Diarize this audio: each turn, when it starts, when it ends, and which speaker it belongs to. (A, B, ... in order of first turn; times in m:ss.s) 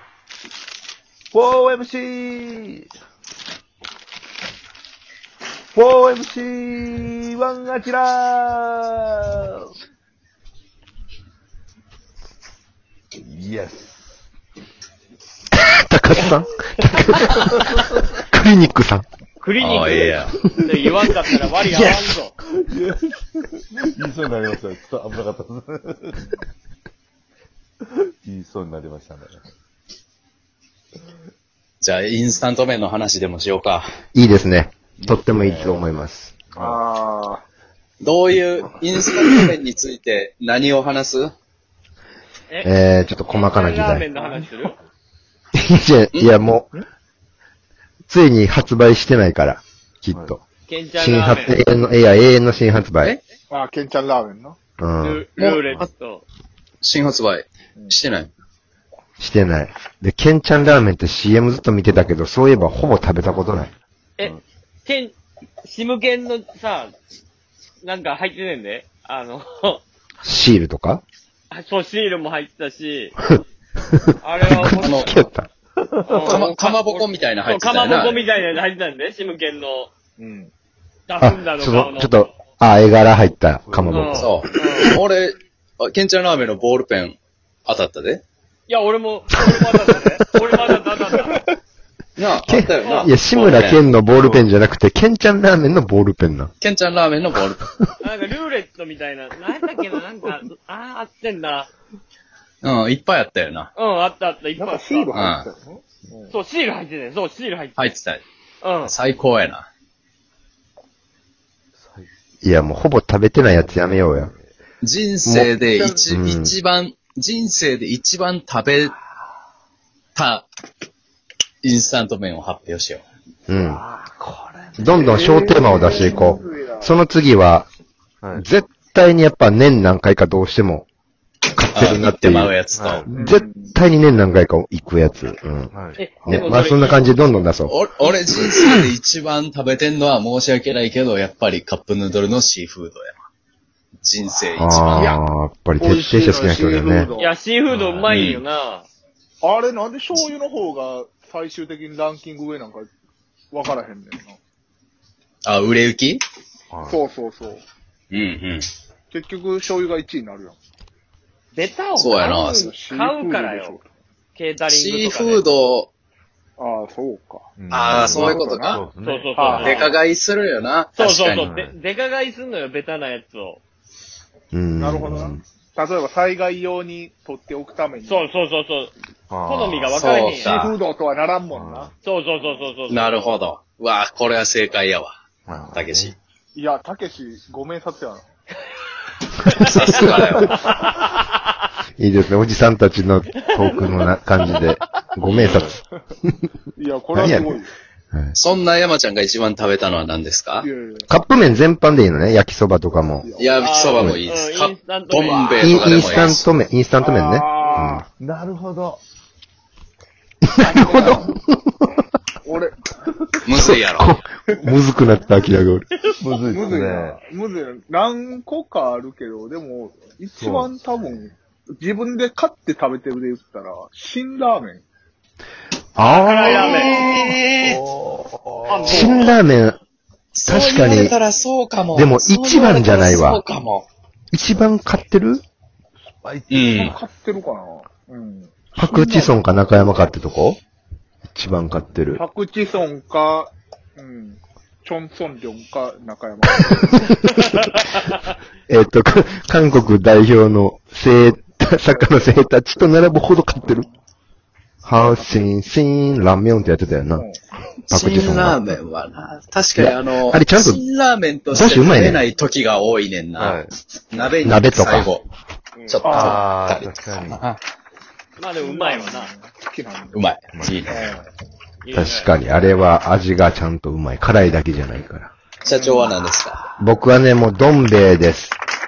0:01.3-0:02.9 A
0:05.7-0:09.7 A
0:13.2-0:14.2 A
0:15.6-0:19.0 B
0:16.2-0:17.5 C
0:19.4-0:22.3 C
0:19.6-0:20.4 D
0:21.6-0:22.1 B
0:22.4-0:26.3 A
0:27.9-0:29.4 A
0:31.8-0:33.9 D
0:34.1-0:36.3 B
0:35.0-0:35.9 A
0:36.5-0:36.8 A
0:36.6-0:37.4 E
0:38.0-0:41.3 D
0:42.6-0:44.1 B
0:43.3-0:44.8 C
0:44.2-0:44.7 E
0:45.6-0:46.7 B
0:46.1-0:46.4 D
0:48.1-0:50.4 B
0:50.7-0:51.6 C
0:51.0-0:53.2 B
0:53.5-0:54.6 E
0:54.8-0:55.3 B
0:55.0-0:56.2 C
0:55.4-0:55.7 D
0:56.8-0:58.3 D
0:59.2-1:03.7 B
1:04.2-1:06.9 C
1:07.8-1:09.8 C
1:10.2-1:11.0 B
1:11.5-1:13.2 C
1:14.0-1:15.5 B
1:14.2-1:15.2 C
1:14.7-1:15.1 D
1:15.9-1:16.3 A
1:16.1-1:19.9 C
1:16.1-1:18.2 D
1:20.2-1:20.5 E
1:21.1-1:22.3 C
1:21.2-1:24.8 B
1:23.6-1:24.2 A
1:23.9-1:25.0 C
1:24.2-1:28.2 D
1:28.7-1:31.4 C
1:30.7-1:31.4 E
1:32.2-1:34.4 D
1:32.5-1:36.5 B
1:32.8-1:33.1 C
1:36.6-1:37.7 D
1:38.0-1:41.7 C
1:42.6-1:43.7 D
1:43.8-1:45.1 C
1:44.6-1:46.4 E
1:45.1-1:45.5 D
1:46.3-1:47.9 C
1:47.8-1:48.2 D
1:48.6-1:48.9 C
1:48.8-1:49.7 D
1:51.8-1:52.1 A
1:52.4-1:54.3 B
1:53.5-1:54.4 A
1:54.8-1:59.0 D
1:55.3-1:56.6 B
2:00.2-2:00.5 D
2:01.6-2:03.0 D
2:03.5-2:03.8 B
2:03.6-2:04.9 A
2:04.8-2:07.7 B
2:05.0-2:06.9 E
2:08.2-2:08.5 A
2:08.4-2:10.9 B
2:11.5-2:15.7 B
2:11.8-2:13.0 D
2:12.7-2:13.1 A
2:13.1-2:13.7 E
2:15.7-2:16.0 A
2:16.0-2:17.0 C
2:16.2-2:17.8 B
2:17.7-2:23.2 D
2:18.6-2:18.8 B
2:24.0-2:25.2 D
2:24.6-2:27.1 B
2:25.8-2:27.3 E
2:27.2-2:28.9 C
2:27.7-2:28.1 A
2:28.1-2:28.4 D
2:29.4-2:32.9 E
2:33.5-2:34.4 E
2:35.4-2:36.2 D
2:36.7-2:37.0 A
2:36.9-2:37.6 E
2:38.1-2:38.7 D
2:39.1-2:40.6 E
2:41.5-2:43.8 C
2:42.0-2:42.7 D
2:42.5-2:43.9 E
2:44.4-2:45.5 C
2:44.7-2:45.9 D
2:46.6-2:48.8 E
2:47.6-2:49.8 A
2:47.7-2:48.8 D
2:49.0-2:50.0 C
2:49.3-2:50.0 E
2:49.5-2:51.5 D
2:51.0-2:53.6 C
2:51.3-2:51.8 A
2:54.5-2:55.4 B
2:54.8-2:58.3 E
2:58.0-2:58.9 C
2:59.3-3:00.0 A
2:59.5-3:00.6 C
2:59.9-3:00.8 D
3:00.4-3:01.9 E
3:01.5-3:01.9 A
3:02.0-3:03.2 C
3:02.9-3:05.1 D
3:05.5-3:06.1 A
3:05.7-3:06.2 D
3:06.6-3:08.2 E
3:09.5-3:10.1 C
3:09.6-3:10.6 D
3:10.6-3:11.3 C
3:12.0-3:15.8 B
3:13.4-3:14.7 C
3:15.2-3:15.7 D
3:16.8-3:17.7 E
3:17.1-3:17.6 B
3:18.4-3:20.7 D
3:20.6-3:21.1 E
3:21.1-3:23.3 B
3:23.2-3:24.2 E
3:23.4-3:26.5 D
3:23.6-3:26.4 C
3:25.6-3:28.0 B
3:27.0-3:28.0 E
3:28.2-3:29.0 A
3:30.5-3:32.0 B
3:30.6-3:31.4 E
3:32.4-3:32.7 E
3:33.4-3:34.2 D
3:33.6-3:35.9 B
3:36.2-3:37.2 A
3:36.5-3:44.8 E
3:40.4-3:40.7 A
3:46.0-3:47.0 B
3:46.0-3:47.0 C
3:46.4-3:47.8 D
3:47.1-3:49.3 A
3:48.7-3:49.3 C
3:48.9-3:49.8 B
3:50.3-3:53.9 D
3:50.5-3:51.2 B
3:51.9-3:53.4 B
3:54.3-3:55.4 B
3:56.2-3:57.0 A
3:56.5-3:57.0 D
3:56.8-3:59.4 E
3:58.8-4:00.6 B
4:01.3-4:02.2 B
4:02.2-4:06.9 E
4:06.8-4:07.4 B
4:08.7-4:13.9 B
4:11.9-4:12.2 E
4:14.8-4:17.3 B
4:15.0-4:15.5 E
4:17.9-4:18.8 B
4:17.9-4:25.2 D
4:19.8-4:20.8 B
4:21.5-4:22.2 B
4:23.4-4:23.7 A
4:24.4-4:25.1 B
4:25.9-4:27.6 D
4:26.0-4:26.4 E
4:26.1-4:27.4 A
4:28.4-4:29.3 C
4:28.6-4:30.3 E
4:30.1-4:31.0 D
4:30.5-4:31.0 A
4:30.9-4:31.3 E
4:31.8-4:32.4 C
4:31.9-4:35.3 B
4:35.6-4:36.7 D
4:35.6-4:36.1 E
4:36.8-4:38.6 B